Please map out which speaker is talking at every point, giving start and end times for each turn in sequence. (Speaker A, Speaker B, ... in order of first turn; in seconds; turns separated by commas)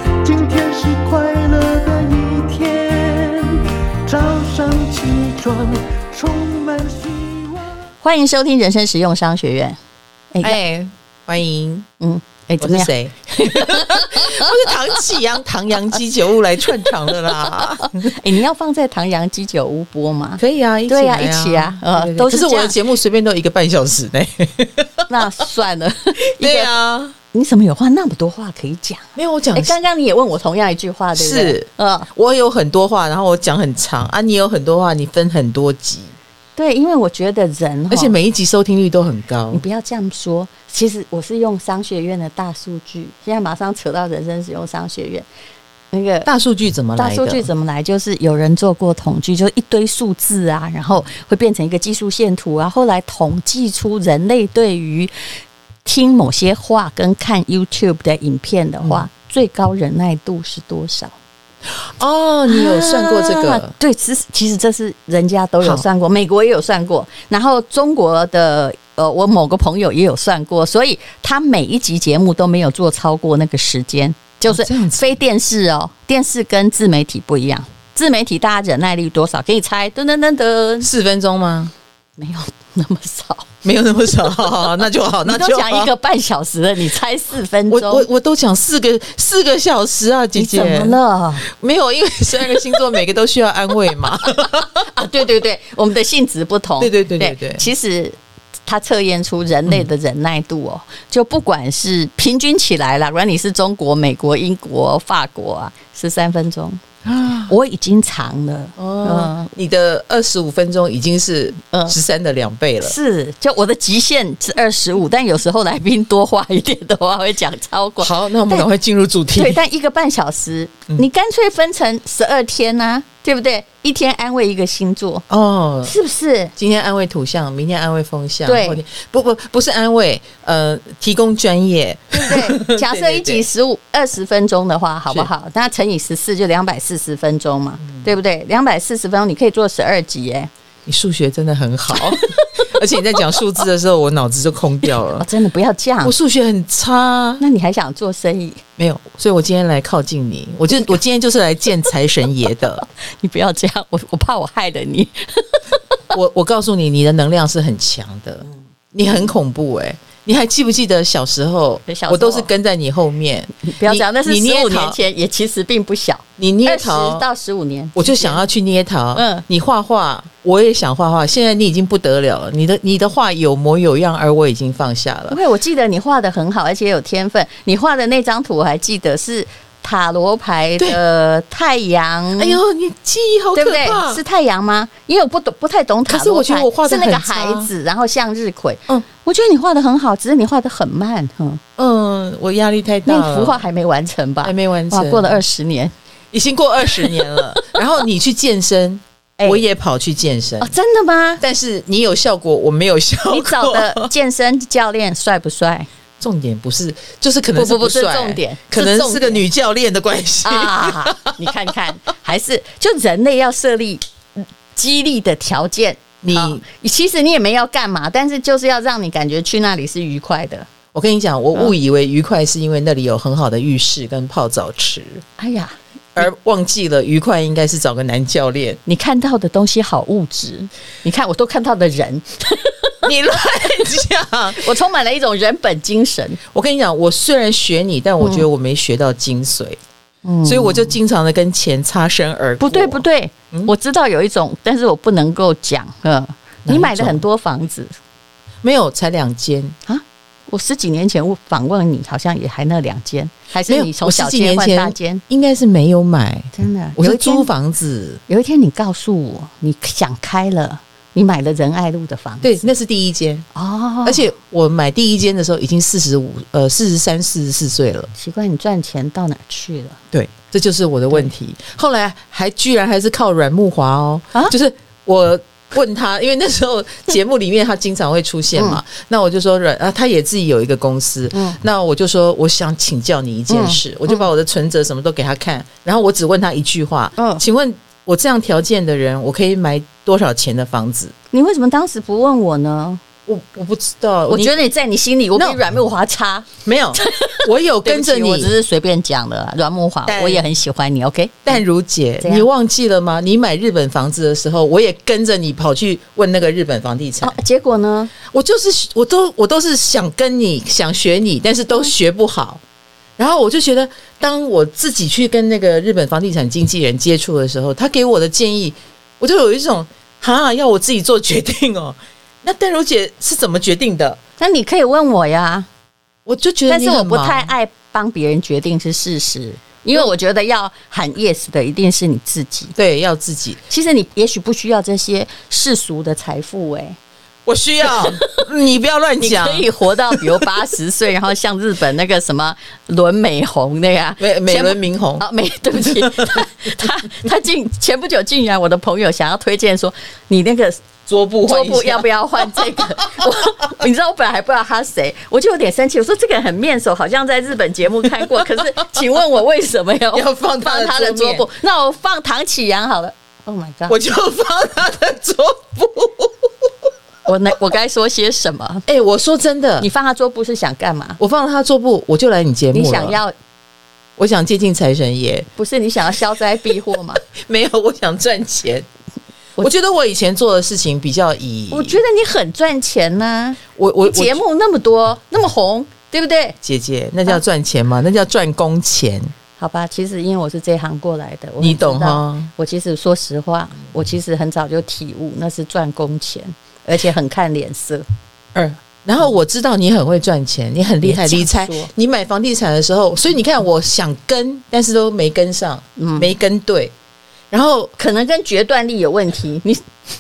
Speaker A: 0.2-7.7, Speaker B: 8.0-9.8, Speaker B: 10.3-10.9, Speaker C: 10.4-10.8, Speaker C: 11.3-11.9, Speaker B: 12.0-14.8, Speaker C: 12.6-18.1, Speaker B: 16.8-22.8, Speaker C: 20.4-25.3, Speaker B: 25.1-26.7, Speaker C: 26.3-27.1, Speaker B: 27.3-32.1, Speaker C: 29.2-29.8, Speaker C: 31.1-36.1, Speaker B: 36.6-38.1, Speaker C: 37.9-39.6, Speaker B: 39.5-45.3, Speaker B: 45.9-46.3, Speaker C: 46.3-47.5, Speaker B: 47.0-55.1, Speaker B: 55.9-61.1, Speaker C: 58.8-59.1, Speaker C: 62.0-63.7, Speaker B: 62.5-80.9, Speaker C: 74.5-75.0, Speaker C: 80.8-81.7, Speaker B: 82.2-83.6, Speaker C: 83.6-85.9, Speaker B: 85.2-88.1, Speaker C: 87.7-94.8, Speaker B: 90.3-91.5, Speaker B: 94.8-106.8, Speaker C: 96.8-97.7, Speaker C: 107.0-107.5, Speaker B: 107.5-109.5, Speaker C: 108.8-113.0, Speaker B: 111.7-112.0, Speaker B: 112.8-118.7, Speaker C: 118.0-119.6, Speaker B: 119.3-125.2, Speaker C: 125.3-126.0, Speaker B: 125.8-126.5, Speaker C: 126.6-133.5, Speaker B: 128.5-128.8, Speaker B: 132.1-140.5, Speaker C: 140.9-145.3, Speaker B: 141.9-142.7, Speaker B: 145.1-146.1, Speaker C: 146.0-147.4, Speaker B: 147.4-148.6, Speaker C: 148.8-152.8, Speaker B: 153.0-155.6, Speaker C: 156.1-165.0, Speaker B: 161.9-162.5, Speaker B: 163.6-168.4, Speaker C: 166.4-167.2, Speaker C: 168.0-175.4, Speaker B: 169.2-169.4, Speaker B: 175.3-182.6, Speaker C: 182.4-184.2, Speaker B: 183.6-191.6, Speaker C: 186.1-187.7, Speaker C: 191.8-193.6, Speaker B: 193.1-195.9, Speaker C: 194.4-195.4, Speaker C: 196.3-200.7, Speaker B: 197.0-197.8, Speaker B: 199.4-199.6, Speaker B: 200.6-201.4, Speaker C: 201.4-204.1, Speaker B: 203.3-205.9, Speaker C: 206.2-211.5, Speaker B: 207.6-209.4, Speaker B: 210.4-214.0, Speaker B: 214.8-220.7, Speaker C: 216.2-216.6, Speaker C: 220.9-225.2, Speaker B: 225.4-225.8, Speaker C: 226.2-228.8, Speaker B: 228.9-233.1, Speaker C: 233.0-234.6, Speaker B: 234.6-236.4, Speaker C: 236.5-239.8, Speaker B: 238.2-238.5, Speaker B: 240.2-241.0, Speaker C: 240.4-243.7, Speaker B: 242.6-247.9, Speaker C: 246.7-247.2, Speaker C: 248.6-249.8, Speaker B: 249.9-255.2, Speaker C: 253.7-258.2, Speaker B: 256.5-257.5, Speaker B: 258.3-262.6, Speaker C: 262.4-263.5, Speaker B: 263.5-264.2, Speaker C: 264.1-268.1, Speaker B: 268.1-270.0, Speaker C: 270.1-291.1, Speaker B: 278.6-278.8, Speaker B: 281.3-281.6, Speaker B: 283.5-284.3, Speaker B: 287.2-287.4, Speaker B: 291.3-293.0, Speaker C: 293.3-294.5, Speaker B: 294.3-301.6, Speaker C: 296.6-298.5, Speaker C: 300.1-300.4, Speaker C: 301.5-307.4, Speaker B: 302.2-302.5, Speaker B: 307.2-308.1, Speaker C: 308.2-312.6, Speaker C: 313.2-324.2, Speaker B: 324.4-325.7, Speaker C: 326.3-327.5, Speaker B: 326.7-332.8, Speaker C: 332.8-333.6, Speaker B: 333.7-337.0, Speaker C: 337.5-340.5, Speaker B: 337.8-338.4, Speaker B: 339.2-350.9, Speaker C: 344.2-346.4, Speaker C: 351.1-353.4, Speaker B: 351.4-364.0, Speaker C: 358.2-358.4, Speaker C: 360.1-361.5, Speaker C: 363.9-366.5, Speaker B: 367.3-368.9, Speaker C: 368.9-369.9, Speaker B: 369.8-371.2, Speaker C: 371.2-373.2, Speaker B: 372.7-373.4, Speaker C: 374.2-375.5, Speaker B: 375.6-377.2, Speaker C: 377.2-378.9, Speaker C: 379.6-382.0, Speaker B: 381.7-386.6, Speaker C: 383.8-384.4, Speaker C: 386.6-389.3, Speaker B: 389.6-398.1, Speaker C: 391.6-392.5, Speaker C: 398.5-406.9, Speaker B: 401.0-401.9, Speaker B: 406.0-406.3, Speaker C: 407.5-407.9, Speaker B: 408.0-409.8